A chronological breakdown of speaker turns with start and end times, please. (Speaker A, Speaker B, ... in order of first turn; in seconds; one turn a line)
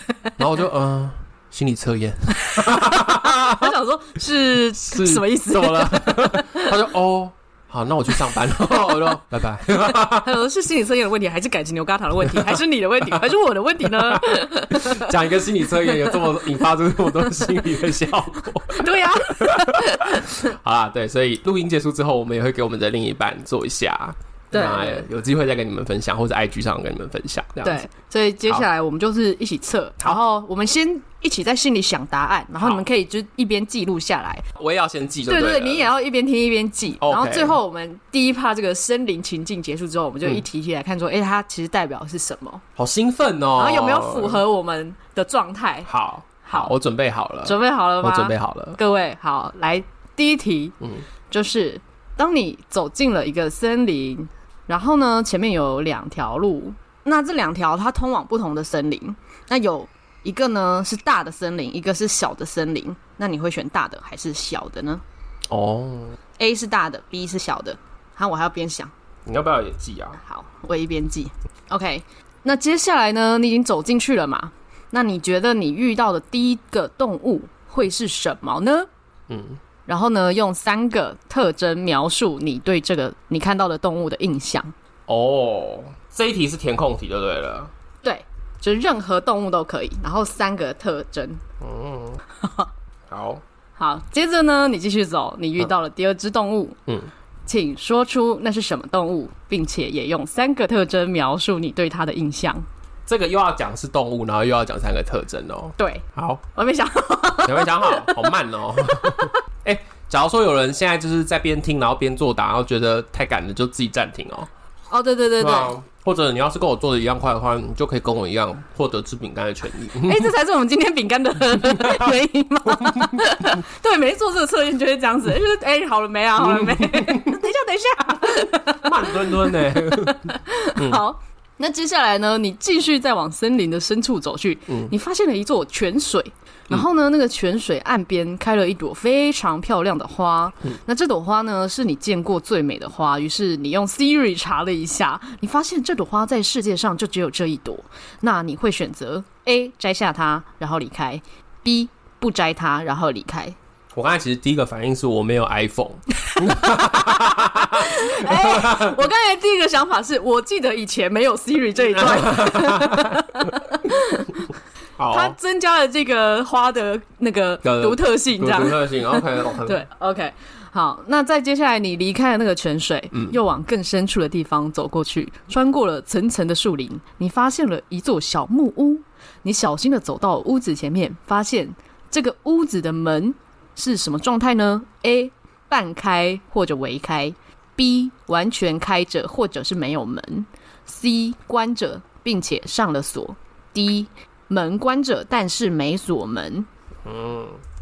Speaker A: 0.4-3.7
Speaker B: 2.4-6.8
Speaker A: 4.8-10.3
Speaker B: 9.9-15.1
Speaker A: 14.1-27.8
Speaker B: 15.9-16.2
Speaker B: 18.7-20.5
Speaker B: 24.5-25.1
Speaker B: 27.6-34.5
Speaker A: 34.6-35.9
Speaker B: 35.3-42.6
Speaker A: 37.0-37.6
Speaker A: 42.8-44.4
Speaker B: 43.6-45.9
Speaker A: 45.9-48.8
Speaker B: 46.5-46.7
Speaker B: 47.5-50.8
Speaker B: 51.3-65.0
Speaker A: 65.5-66.2
Speaker B: 66.4-68.9
Speaker A: 69.2-70.2
Speaker B: 70.2-78.9
Speaker A: 79.3-79.6
Speaker B: 79.9-84.7
Speaker A: 85.1-87.7
Speaker B: 88.0-91.4
Speaker A: 91.6-92.2
Speaker B: 92.4-92.7
Speaker A: 93.1-93.4
Speaker B: 93.8-96.8
Speaker B: 97.5-102.7
Speaker A: 103.1-106.4
Speaker B: 105.8-108.4
Speaker A: 107.4-114.5
Speaker B: 109.0-109.4
Speaker B: 114.9-115.8
Speaker A: 115.4-120.3
Speaker B: 120.0-153.6
Speaker A: 121.6-122.1
Speaker A: 122.9-123.2
Speaker A: 126.4-127.5
Speaker A: 128.7-131.0
Speaker A: 134.7-134.9
Speaker A: 153.9-159.0
Speaker B: 156.3-164.4
Speaker A: 161.9-163.3
Speaker A: 165.0-165.4
Speaker B: 165.1-196.7
Speaker A: 167.6-169.8
Speaker A: 197.1-197.6